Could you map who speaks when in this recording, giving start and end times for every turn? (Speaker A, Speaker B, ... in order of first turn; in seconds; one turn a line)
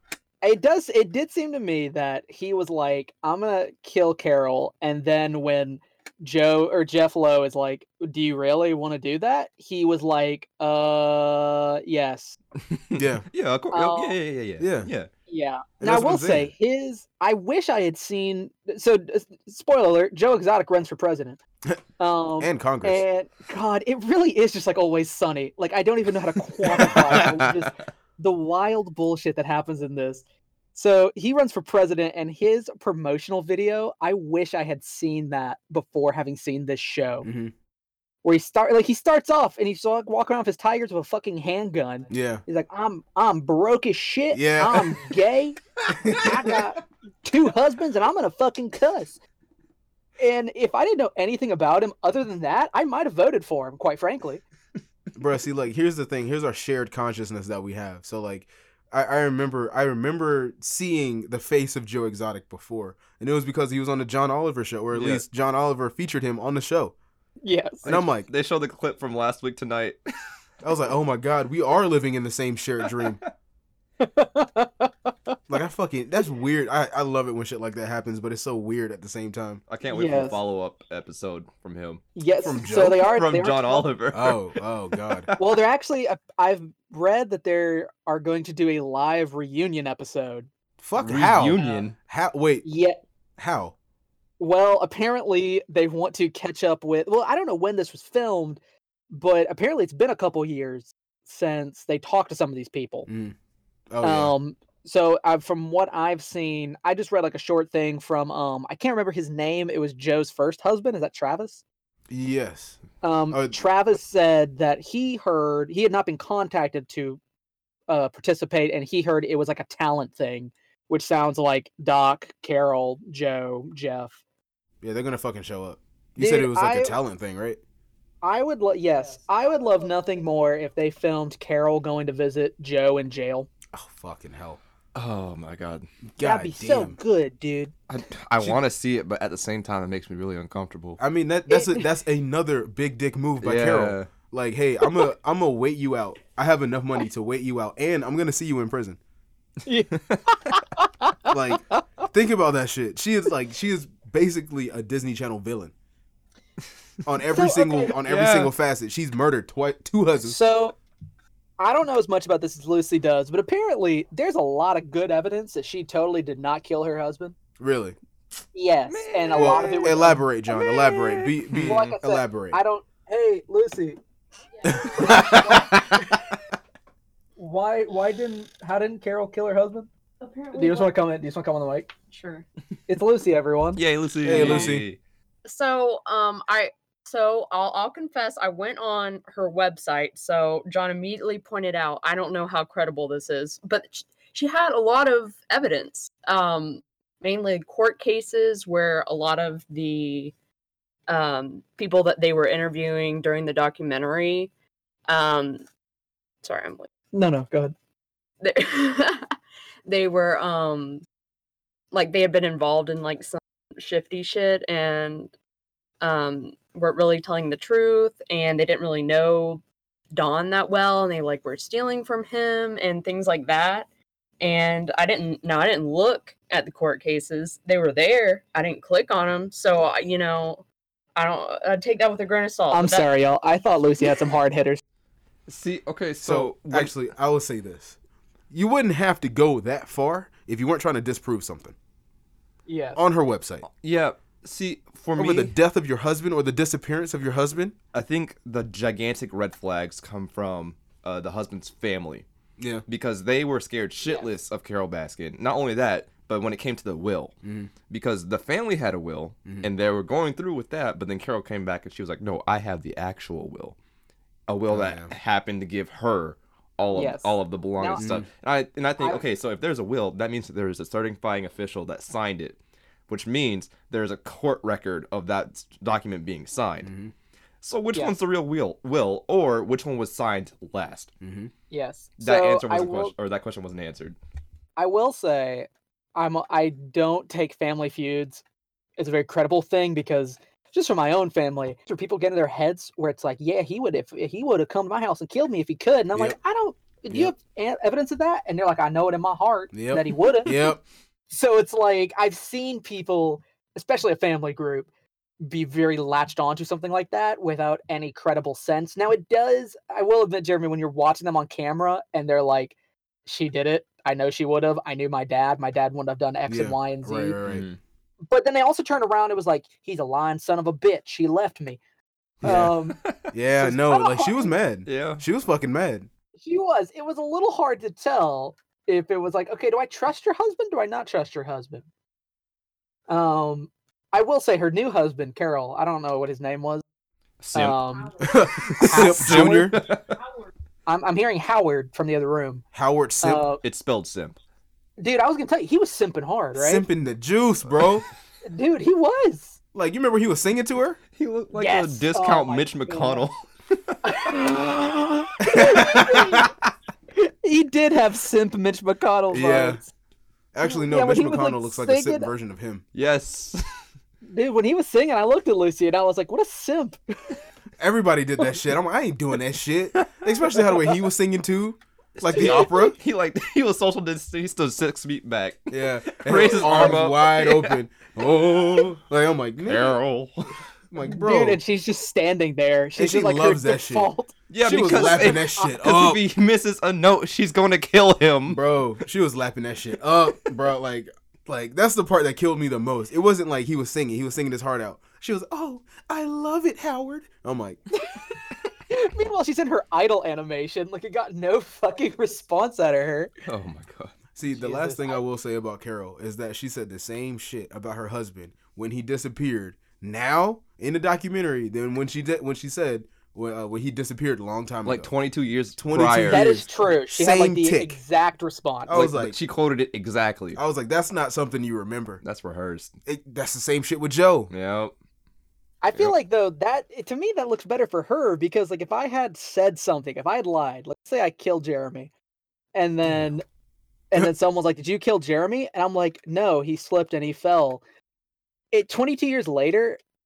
Speaker A: 0.4-12.4
Speaker B: 12.7-15.1
Speaker C: 12.9-13.2
Speaker A: 13.7-14.2
Speaker C: 14.6-14.9
Speaker A: 15.3-21.4
Speaker C: 15.8-16.5
Speaker A: 22.0-30.2
Speaker C: 22.4-23.0
Speaker B: 26.6-27.6
Speaker A: 30.7-37.3
Speaker C: 37.2-37.5
Speaker A: 38.2-49.2
Speaker C: 42.1-42.4
Speaker C: 44.3-45.0
Speaker C: 46.0-46.5
Speaker A: 50.2-54.4
Speaker C: 55.1-66.9
Speaker B: 64.9-65.2
Speaker A: 67.4-67.8
Speaker C: 67.8-68.3
Speaker B: 67.8-70.0
Speaker C: 70.6-73.2
Speaker A: 74.0-75.3
Speaker C: 75.5-79.6
Speaker B: 79.7-82.1
Speaker A: 79.9-80.4
Speaker A: 82.2-83.9
Speaker C: 82.4-83.0
Speaker B: 82.6-84.5
Speaker C: 84.1-85.3
Speaker B: 85.0-85.4
Speaker A: 85.4-90.5
Speaker C: 90.8-92.6
Speaker B: 91.0-91.9
Speaker A: 91.5-91.8
Speaker A: 92.6-93.0
Speaker C: 93.4-93.7
Speaker A: 94.4-103.1
Speaker C: 103.1-103.3
Speaker C: 103.9-104.3
Speaker A: 104.0-111.6
Speaker C: 112.1-112.8
Speaker A: 113.0-117.2
Speaker C: 113.3-113.6
Speaker A: 117.9-124.2
Speaker C: 124.8-127.6
Speaker A: 126.2-127.0
Speaker A: 128.2-133.5
Speaker C: 133.7-134.6
Speaker B: 134.9-135.9
Speaker C: 136.2-137.0
Speaker A: 136.2-137.7
Speaker B: 137.9-141.0
Speaker C: 141.0-149.0
Speaker A: 141.5-141.8
Speaker B: 143.4-144.1
Speaker A: 149.7-151.8
Speaker B: 149.9-150.2
Speaker C: 151.3-155.7
Speaker C: 157.1-160.4
Speaker A: 157.3-157.9
Speaker B: 158.0-158.5
Speaker A: 160.2-160.8
Speaker A: 161.6-167.4
Speaker C: 167.6-168.0
Speaker A: 168.5-170.2
Speaker B: 168.9-171.9
Speaker C: 169.3-172.6
Speaker A: 171.6-174.0
Speaker C: 174.6-176.1
Speaker A: 174.7-175.7
Speaker A: 177.4-179.9
Speaker D: 180.2-180.9
Speaker A: 180.5-181.9
Speaker D: 182.1-182.4
Speaker A: 182.9-183.8
Speaker B: 183.8-185.0
Speaker C: 184.2-184.9
Speaker D: 185.4-200.3
Speaker D: 201.1-204.5
Speaker D: 205.1-205.6
Speaker D: 206.4-206.9
Speaker A: 207.1-207.7
Speaker D: 208.4-209.3
Speaker D: 209.8-211.0
Speaker D: 211.9-215.3
Speaker D: 216.0-223.9
Speaker D: 224.4-230.6
Speaker D: 231.2-233.1
Speaker A: 232.7-234.8
Speaker B: 235.5-236.9
Speaker C: 236.2-238.0
Speaker C: 238.5-241.8
Speaker A: 242.7-243.0
Speaker C: 242.9-243.6
Speaker B: 243.7-245.5
Speaker C: 245.2-247.8
Speaker B: 247.9-252.2
Speaker C: 252.6-252.8
Speaker B: 252.9-257.3
Speaker C: 257.4-257.7
Speaker B: 257.9-263.8
Speaker B: 264.5-276.9
Speaker C: 264.7-265.1
Speaker A: 266.9-268.1
Speaker C: 268.0-268.2
Speaker C: 276.8-277.1
Speaker B: 277.6-281.1
Speaker C: 281.2-281.5
Speaker A: 281.7-283.1
Speaker B: 282.2-284.2
Speaker A: 284.8-288.4
Speaker A: 289.0-300.7
Speaker C: 299.7-300.8
Speaker A: 301.3-304.9
Speaker A: 305.4-312.7
Speaker A: 313.2-317.4
Speaker C: 316.5-317.7
Speaker B: 317.4-317.8
Speaker A: 318.3-321.8
Speaker C: 322.4-322.7
Speaker A: 322.4-323.0
Speaker B: 323.0-323.3
Speaker C: 323.3-326.1
Speaker A: 323.6-324.6
Speaker B: 324.9-325.2
Speaker A: 326.4-331.9
Speaker A: 333.1-336.8
Speaker B: 337.4-340.1
Speaker A: 337.5-338.1
Speaker C: 338.2-339.8
Speaker A: 338.8-339.7
Speaker A: 340.9-342.6
Speaker C: 342.7-343.4
Speaker A: 343.2-343.6
Speaker B: 343.6-344.4
Speaker A: 345.0-346.8
Speaker C: 346.5-348.0
Speaker A: 348.4-349.6
Speaker C: 349.7-351.0
Speaker B: 351.1-354.4
Speaker A: 351.5-353.2
Speaker A: 354.0-356.5
Speaker C: 355.5-356.4
Speaker B: 355.6-356.2
Speaker A: 357.1-359.9
Speaker C: 359.3-359.8
Speaker C: 360.5-362.8
Speaker A: 360.6-362.3
Speaker B: 362.9-363.6
Speaker A: 364.2-367.4
Speaker C: 367.8-373.0
Speaker B: 372.2-377.7
Speaker C: 375.7-379.9
Speaker A: 376.5-376.9
Speaker B: 379.6-380.5
Speaker C: 380.9-381.6
Speaker A: 381.0-385.7
Speaker C: 382.9-384.1
Speaker B: 384.5-388.6
Speaker C: 384.6-386.2
Speaker C: 388.5-397.8
Speaker A: 398.0-398.4
Speaker A: 398.9-403.3
Speaker B: 403.5-404.1
Speaker C: 404.3-415.1
Speaker A: 404.6-405.2
Speaker B: 414.8-416.5
Speaker C: 415.8-418.0
Speaker A: 416.3-419.1
Speaker C: 418.9-419.3
Speaker B: 418.9-420.6
Speaker C: 420.6-422.2
Speaker B: 422.2-422.9
Speaker C: 423.1-424.5
Speaker B: 424.5-424.9
Speaker A: 425.8-432.1
Speaker A: 432.7-433.4
Speaker A: 434.1-437.8
Speaker A: 438.7-440.0